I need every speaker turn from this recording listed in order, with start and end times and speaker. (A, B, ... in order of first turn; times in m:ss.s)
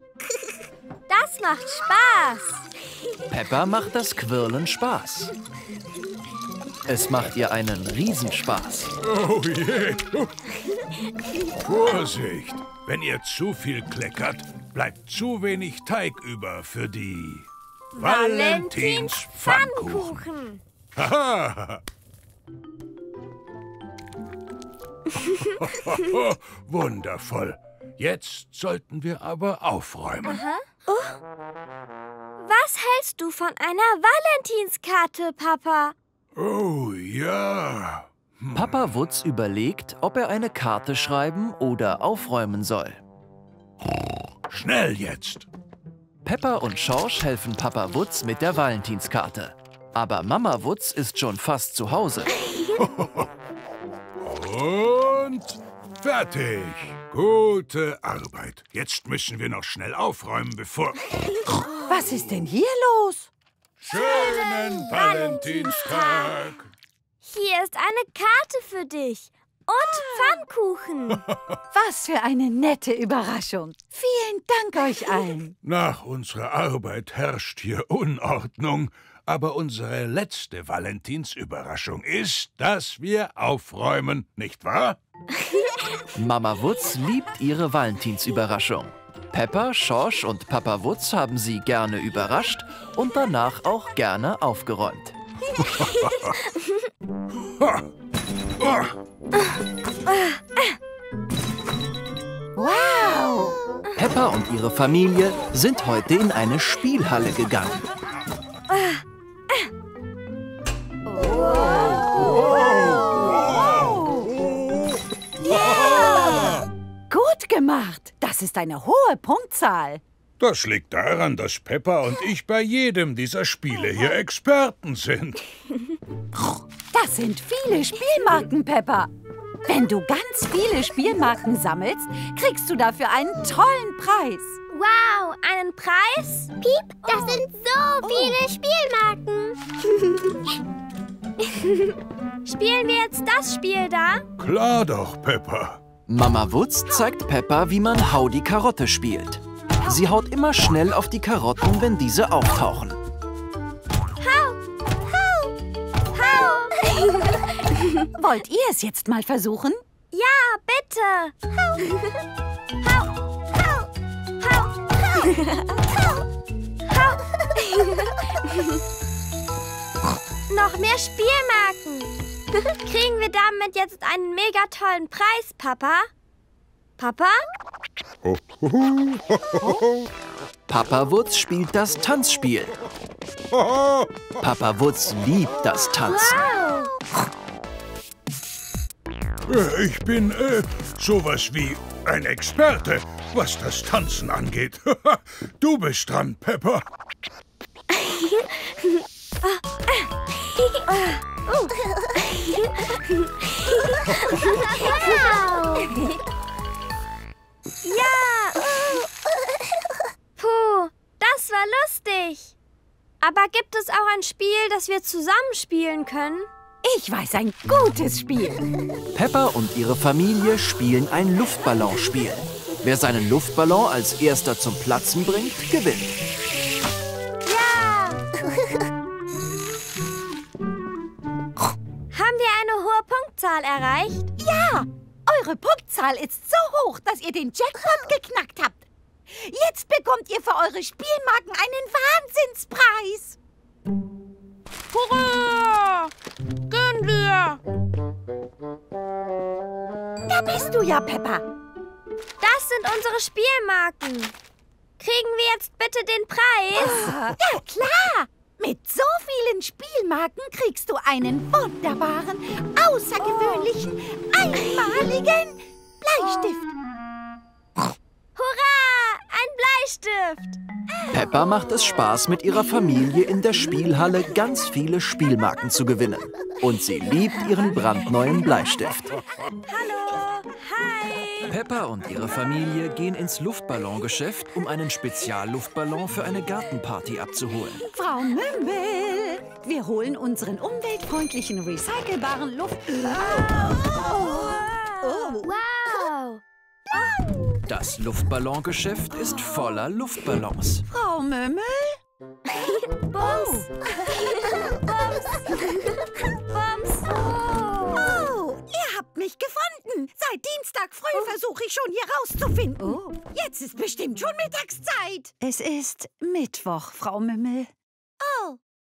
0:01.1-0:02.7 A
0:03.3-0:05.3 B
0:06.9-0:08.9 B
0:09.0-0:10.3 C
0:11.6-0:20.2 C
0:18.0-0:20.6 A
0:21.0-0:21.8 C
0:25.2-0:30.4 C
0:30.2-0:31.2 A
0:32.4-0:36.0 A
0:36.4-0:38.8 C
0:38.5-0:43.0 B
0:44.5-0:45.5 C
0:46.2-0:52.4 B
0:52.8-0:53.3 C
0:54.2-1:01.0 C
1:01.9-1:03.3 D
1:03.8-1:06.7 C
1:03.9-1:06.1 A
1:06.0-1:06.3 D
1:07.2-1:11.2 A
1:09.9-1:10.4 D
1:11.7-1:15.5 D
1:15.6-1:25.0 C
1:26.1-1:35.2 B
1:35.6-1:36.4 C
1:37.4-1:37.8 C
1:38.6-1:38.9 C
1:40.1-1:40.8 A
1:42.6-1:43.6 D
1:44.0-1:47.8 B
1:48.7-1:49.0 A
1:51.1-1:54.3 D
1:52.3-1:54.0 C
1:55.4-1:56.6 D
1:55.5-1:56.6 C
1:57.1-2:00.0 D
2:00.4-2:05.4 C
2:06.9-2:09.1 D
2:09.6-2:14.6 D
2:14.7-2:17.4 A
2:16.6-2:19.6 E
2:18.0-2:18.4 D
2:21.5-2:21.9 A
2:22.4-2:24.2 A
2:24.4-2:25.8 C
2:26.1-2:33.0 B
2:34.2-2:34.6 A
2:36.1-2:38.0 A
2:38.2-2:39.8 D
2:40.1-2:41.3 A
2:42.8-2:43.1 A
2:44.4-2:45.6 A
2:46.9-2:48.8 A
2:50.5-2:52.1 A
2:52.6-2:56.1 A
2:57.0-2:57.4 A
2:58.2-2:59.8 C
3:00.7-3:02.8 B
3:03.5-3:04.3 C
3:04.4-3:06.4 B
3:06.0-3:06.9 A
3:09.5-3:16.8 C
3:18.0-3:21.7 A
3:22.2-3:26.0 A
3:27.8-3:28.8 A
3:30.4-3:32.5 A
3:33.2-3:36.5 A
3:36.8-3:38.7 D
3:39.1-3:46.2 B
3:47.4-3:48.2 A
3:52.1-3:54.3 A
3:54.4-4:03.4 D
4:04.9-4:06.1 A
4:06.7-4:07.6 A
4:10.2-4:11.5 D
4:12.4-4:14.3 A
4:15.0-4:17.0 A
4:16.8-4:26.7 D
4:28.4-4:30.6 A
4:31.1-4:39.1 B
4:39.7-4:41.5 A
4:41.5-4:47.9 B
4:47.9-4:55.5 D
4:54.4-4:56.4 A
4:56.9-4:57.3 A
4:57.7-5:00.9 B
5:00.9-5:02.0 D
5:02.5-5:03.7 A
5:03.2-5:04.2 D
5:04.5-5:05.8 A
5:06.5-5:08.2 A
5:07.9-5:17.7 D